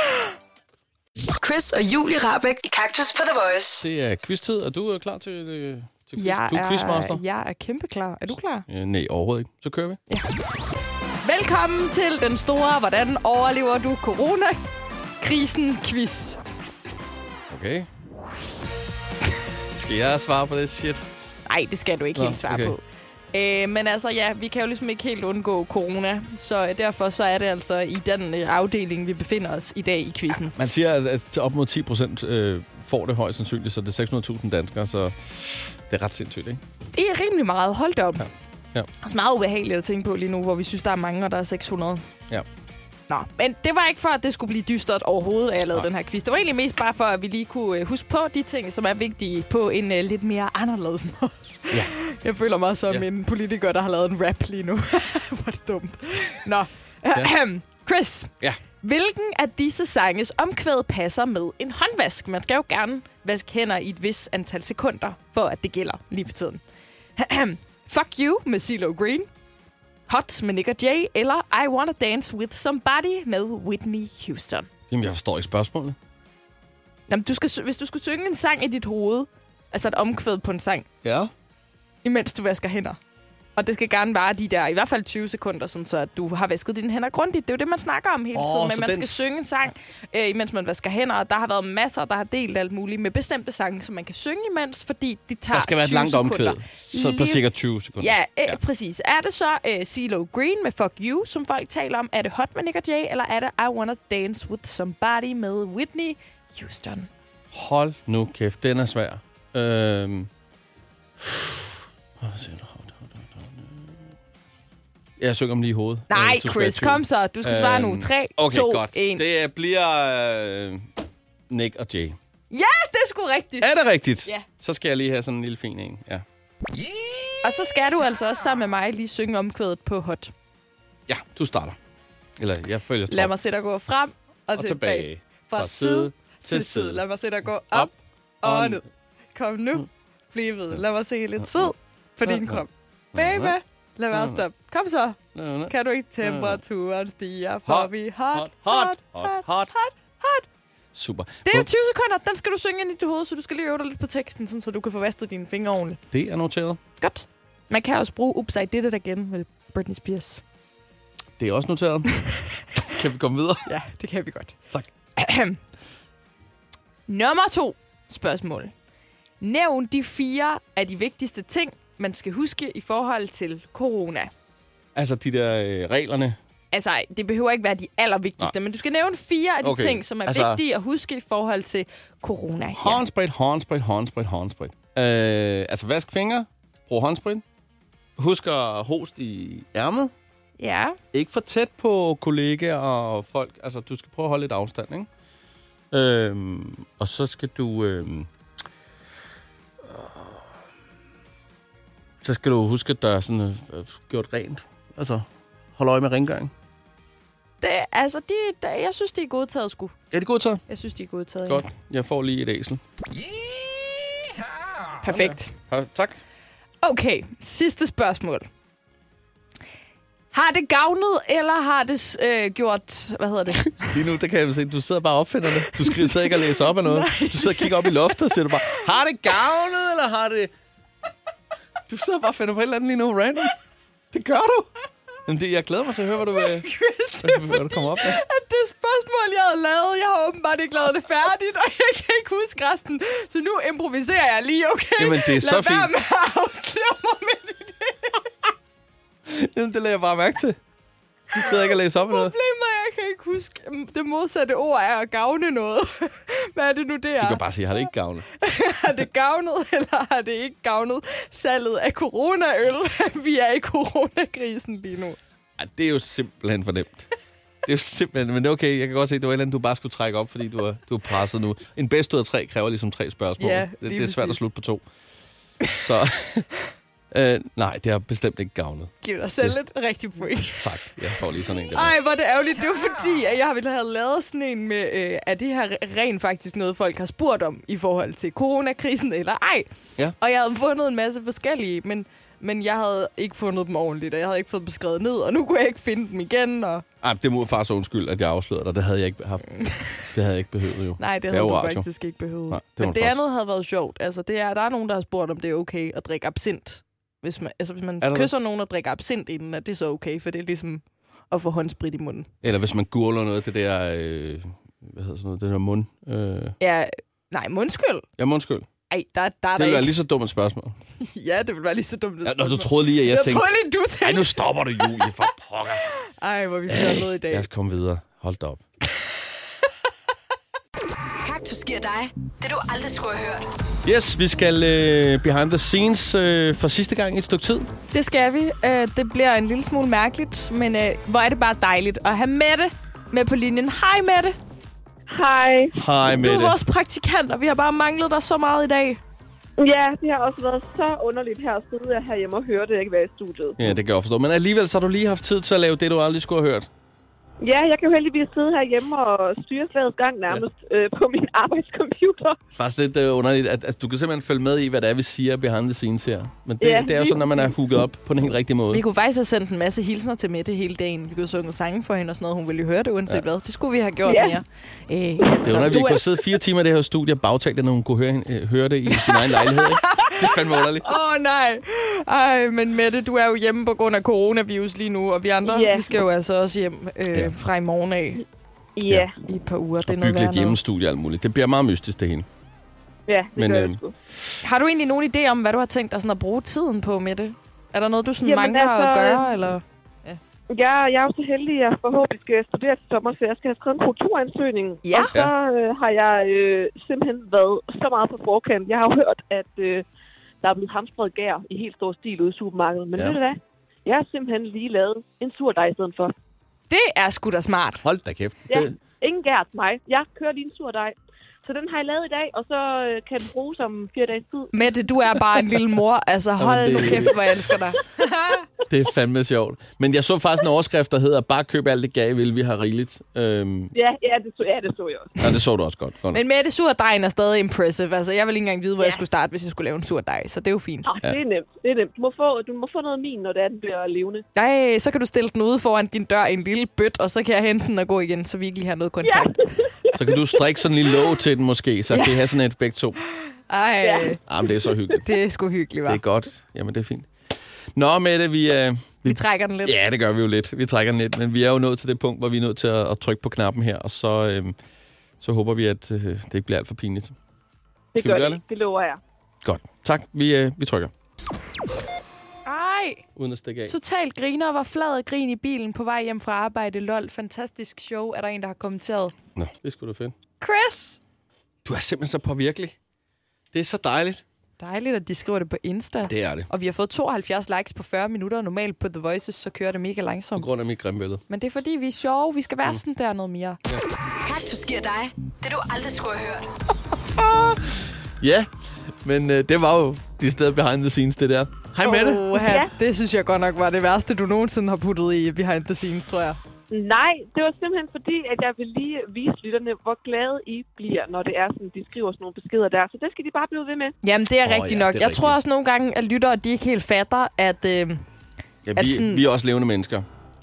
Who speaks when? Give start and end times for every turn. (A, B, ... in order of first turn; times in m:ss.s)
0:01.4-0:03.8 A
0:03.8-0:07.2 B
0:06.2-0:08.6 C
0:08.7-0:10.0 B
0:11.2-0:14.6 C
0:15.2-0:16.4 C
0:17.5-0:17.9 B
0:19.7-0:21.0 B
0:21.5-0:22.8 C
0:22.2-0:22.7 B
0:23.3-0:30.5 C
0:30.5-0:36.6 B
0:36.9-0:38.2 C
0:38.2-0:38.9 B
0:39.0-0:42.0 C
0:43.1-0:58.3 C
0:58.8-1:06.6 C
1:07.2-1:09.3 C
1:10.1-1:14.7 C
1:14.9-1:16.0 B
1:17.1-1:20.9 C
1:21.0-1:21.3 B
1:22.0-1:23.0 C
1:23.6-1:37.4 C
1:28.3-1:29.2 B
1:35.5-1:38.6 B
1:38.0-1:47.1 C
1:47.5-1:50.3 B
1:51.2-1:51.6 B
1:52.2-1:53.9 B
1:55.2-2:00.9 B
1:56.1-1:59.2 C
2:01.5-2:02.2 B
2:02.5-2:03.7 C
2:03.6-2:06.2 B
2:07.4-2:10.3 C
2:11.1-2:11.8 B
2:12.4-2:13.3 B
2:13.1-2:17.9 C
2:14.6-2:17.0 B
2:17.7-2:18.8 B
2:18.4-2:18.8 C
2:19.3-2:30.4 C
2:21.4-2:21.7 B
2:22.2-2:22.6 B
2:23.1-2:23.6 B
2:24.1-2:24.4 B
2:25.3-2:26.6 B
2:27.7-2:29.7 B
2:30.9-2:31.7 B
2:31.4-2:36.0 C
2:36.1-2:36.8 B
2:37.0-2:40.4 C
2:41.4-2:43.6 B
2:43.7-2:44.6 C
2:45.2-2:45.6 C
2:47.1-2:48.7 C
2:49.4-2:54.3 C
2:54.9-2:56.4 B
2:56.7-3:03.0 C
2:59.6-3:00.6 B
3:02.8-3:07.4 B
3:08.2-3:10.1 B
3:10.6-3:11.0 C
3:11.1-3:15.1 B
3:15.9-3:18.3 B
3:19.9-3:20.2 B
3:22.2-3:25.2 B
3:25.8-3:26.5 B
3:27.6-3:29.9 C
3:30.1-3:30.6 B
3:30.7-3:31.7 C
3:31.5-3:32.8 B
3:35.0-3:35.5 C
3:35.0-3:36.2 B
3:36.8-3:38.5 C
3:40.3-3:43.9 C
3:43.8-3:50.5 B
3:45.9-3:48.8 C
3:51.9-3:53.5 B
3:54.1-3:54.7 B
3:55.2-3:56.7 B
3:56.3-4:08.3 C
3:57.2-3:58.2 B
4:05.0-4:05.9 B
4:09.3-4:10.6 B
4:11.3-4:12.3 B
4:11.4-4:17.4 C
4:17.2-4:18.2 B
4:18.4-4:25.2 C
4:25.6-4:27.1 B
4:27.6-4:34.8 B
4:33.4-4:34.4 C
4:35.7-4:36.5 B
4:37.1-4:38.9 B
4:39.0-4:40.9 C
4:40.6-4:41.9 B
4:41.7-4:49.7 C
4:50.2-4:56.8 C
4:57.0-5:01.8 B
4:59.6-5:00.1 C
5:01.0-5:12.3 C
5:02.5-5:03.2 B
5:08.0-5:08.3 B
5:12.4-5:16.6 B
5:16.6-5:18.0 C
5:18.2-5:18.6 B
5:18.9-5:19.9 C
5:19.6-5:20.8 B
5:21.0-5:25.0 C
5:22.2-5:25.8 B
5:26.2-5:27.4 C
5:26.7-5:28.6 B
5:31.2-5:33.5 A
5:33.8-5:37.7 B
5:37.9-5:44.4 C
5:45.1-5:45.7 D
5:45.7-5:46.6 B
5:46.2-5:49.0 C
5:49.6-5:53.8 D
5:53.6-5:56.7 B
5:57.4-6:02.4 D
6:02.5-6:08.8 B
6:06.6-6:07.5 D
6:08.7-6:16.0 C
6:14.0-6:14.4 D
6:15.2-6:15.6 D
6:15.4-6:20.9 B
6:18.9-6:28.2 C
6:25.4-6:26.0 D
6:28.8-6:29.2 D
6:29.3-6:30.6 C
6:29.8-6:32.2 B
6:33.1-6:33.9 D
6:33.4-6:33.8 B
6:34.4-6:40.2 C
6:38.2-6:39.4 D
6:40.5-6:49.8 D
6:44.8-6:45.1 C
6:50.4-6:56.1 D
6:56.7-6:57.8 C
6:57.8-6:58.7 B
6:58.5-7:05.5 D
7:04.5-7:08.4 C
7:06.4-7:07.2 B
7:08.7-7:13.7 B
7:13.7-7:15.2 D
7:15.2-7:16.2 B
7:16.1-7:20.9 C
7:20.8-7:24.2 D
7:24.4-7:29.6 C
7:29.0-7:30.9 D
7:29.9-7:33.0 B
7:31.9-7:32.4 C
7:33.5-7:34.2 C
7:33.8-7:35.0 D
7:34.3-7:35.1 B
7:35.0-7:36.0 C
7:35.8-7:37.1 B
7:37.8-7:44.5 B
7:39.0-7:39.8 C
7:45.2-7:47.1 B
7:47.9-7:49.0 D
7:48.0-7:48.4 B
7:49.4-7:50.9 B
7:52.4-7:53.0 C
7:53.2-7:53.8 B
7:53.7-7:59.1 C
7:59.4-8:00.1 B
8:00.4-8:01.0 C
8:01.6-8:02.7 B
8:03.5-8:04.2 B
8:04.6-8:10.5 C
8:06.1-8:06.5 B
8:10.4-8:11.2 B
8:11.3-8:13.6 C
8:14.2-8:16.5 A
8:17.2-8:18.5 B
8:19.0-8:22.4 B
8:21.8-8:26.4 C
8:22.4-8:22.7 D
8:26.7-8:33.9 D
8:34.0-8:38.0 C
8:34.4-8:35.4 B
8:38.6-8:40.0 B
8:38.8-8:39.2 C